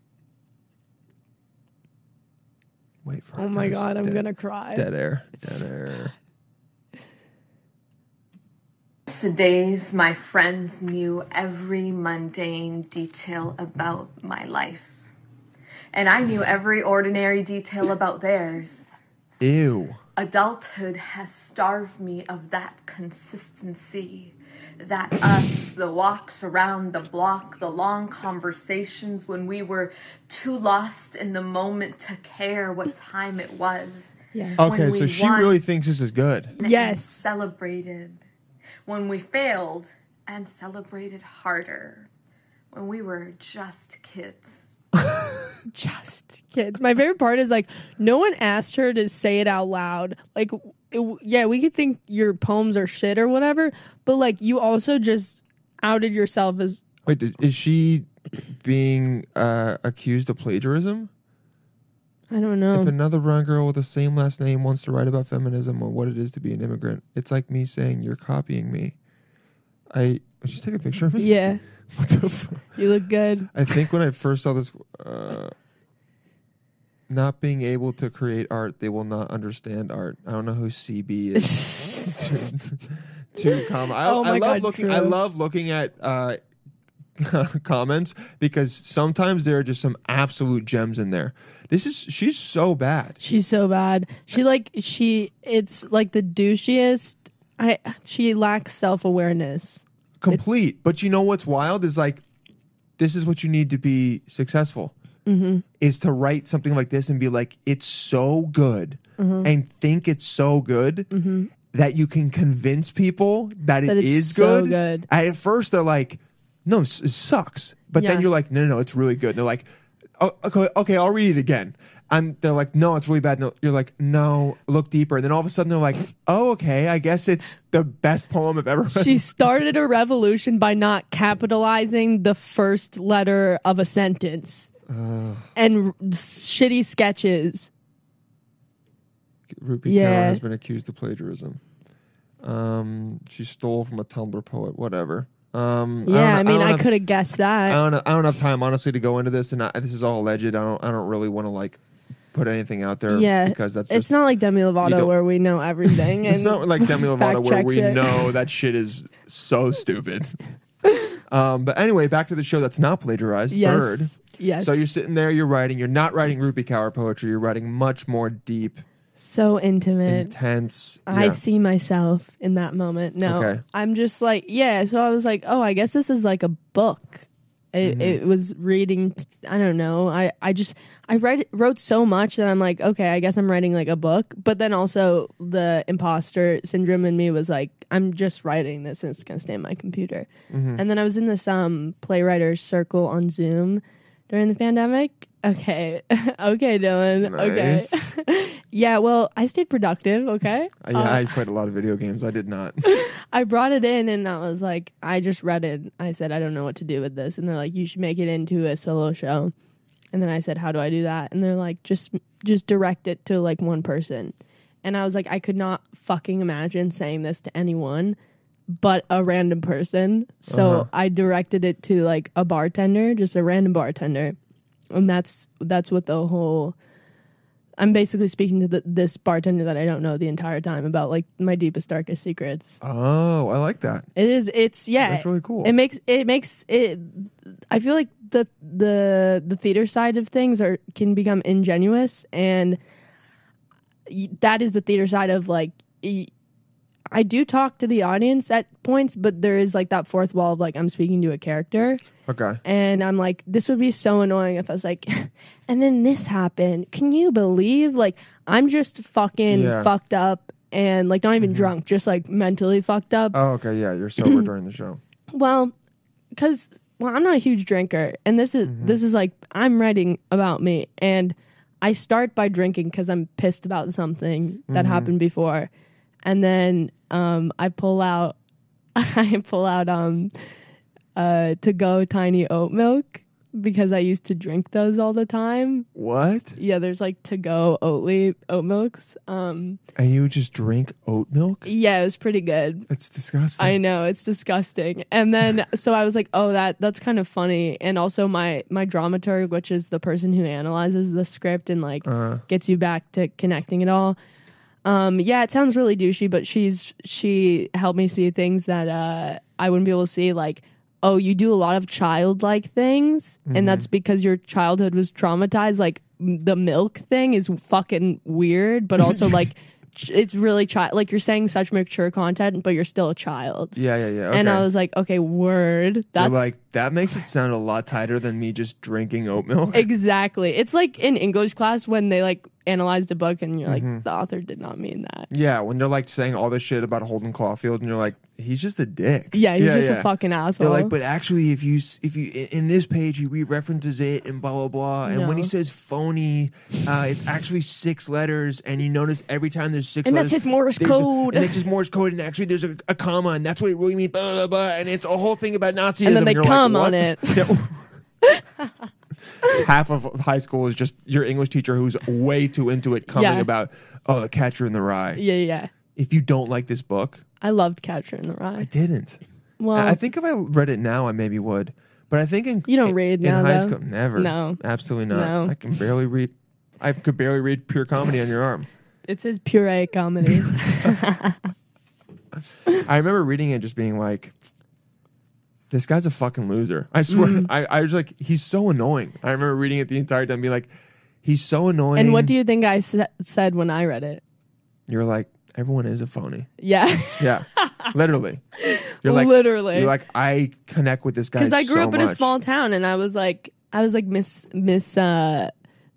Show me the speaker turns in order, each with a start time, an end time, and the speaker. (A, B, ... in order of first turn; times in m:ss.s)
0:03.0-0:06.1 A
0:03.4-0:05.7 B
0:09.1-0:15.0 C
0:15.9-0:18.9 C
0:19.4-0:20.0 A
0:20.2-0:35.6 C
0:34.3-0:34.8 B
0:34.6-0:36.6 A
0:36.6-0:37.2 B
0:36.6-0:38.2 C
0:38.9-0:42.1 C
0:42.7-0:44.7 C
0:45.7-0:56.8 B
0:57.1-1:01.1 A
1:02.3-1:02.9 B
1:02.7-1:09.0 A
1:09.9-1:12.8 A
1:11.2-1:11.6 B
1:12.8-1:13.7 B
1:13.5-1:15.5 A
1:17.1-1:26.4 A
1:21.4-1:22.4 B
1:23.6-1:25.2 B
1:27.2-1:33.2 A
1:33.2-1:40.4 B
1:40.2-1:42.2 A
1:43.0-1:44.9 A
1:45.3-1:45.6 B
1:45.8-1:51.1 A
1:49.2-1:49.5 B
1:51.1-1:51.5 B
1:51.7-1:59.7 A
1:53.9-1:55.1 B
1:58.0-1:58.3 B
2:00.2-2:09.3 A
2:08.9-2:14.7 B
2:14.9-2:15.5 A
2:15.6-2:17.7 B
2:19.5-2:21.6 A
2:19.8-2:20.4 B
2:22.4-2:26.9 A
2:26.0-2:27.8 B
2:27.7-2:31.8 A
2:32.3-2:34.1 A
2:33.1-2:38.3 B
2:34.8-2:35.1 A
2:35.8-2:40.4 A
2:40.9-2:41.2 B
2:41.3-2:48.8 A
2:43.5-2:44.9 B
2:49.2-2:50.3 B
2:50.1-2:51.4 A
2:51.1-3:21.4 B
2:53.2-2:53.6 A
2:57.8-2:58.2 A
3:10.5-3:10.8 A
3:17.2-3:18.0 A
3:20.8-3:22.8 A
3:22.8-3:29.5 B
3:30.1-3:38.2 B
3:38.7-3:44.4 B
3:40.5-3:40.9 A
3:44.9-3:46.8 B
3:47.8-3:52.8 B
3:52.8-3:54.1 A
3:54.2-4:02.8 B
3:55.0-3:55.7 A
4:04.1-4:06.3 B
4:07.1-4:12.0 B
4:12.3-4:12.6 A
4:12.6-4:23.4 B
4:19.5-4:19.9 A
4:21.4-4:21.7 A
4:23.3-4:25.0 A
4:25.3-4:25.7 B
4:26.4-4:35.7 B
4:28.6-4:29.0 A
4:34.7-4:35.1 A
4:36.2-4:38.4 B
4:39.0-4:40.3 B
4:41.2-4:45.9 B
4:46.0-4:46.6 A
4:46.6-4:49.8 B
4:50.0-4:51.7 A
4:51.6-4:52.9 B
4:52.9-4:53.8 A
4:53.6-5:04.2 B
5:02.0-5:02.4 A
5:04.8-5:23.8 B
5:13.5-5:13.9 A
5:23.8-5:24.7 A
5:24.3-5:26.5 B
5:26.2-5:29.9 A
5:29.7-5:35.3 B
5:33.7-5:34.0 A
5:35.3-5:57.8 A
5:39.3-5:40.9 B
5:45.0-5:45.5 B
5:50.0-5:51.6 B
5:56.0-5:57.5 B
5:58.2-5:58.7 B
5:59.5-6:05.2 A
6:03.1-6:03.5 B
6:05.2-6:05.7 B
6:06.0-6:07.2 A
6:07.4-6:08.7 B
6:08.6-6:09.2 A
6:09.6-6:10.0 B
6:09.7-6:18.7 A
6:12.7-6:15.6 B
6:19.1-6:21.5 B
6:22.8-6:24.4 A
6:25.7-6:30.7 A
6:27.1-6:27.5 B
6:31.2-6:32.3 A
6:32.0-6:34.2 B
6:34.9-6:36.5 A
6:36.6-6:37.9 B
6:37.2-6:38.4 A
6:38.6-6:39.9 B
6:39.0-6:42.4 A
6:41.4-6:45.5 B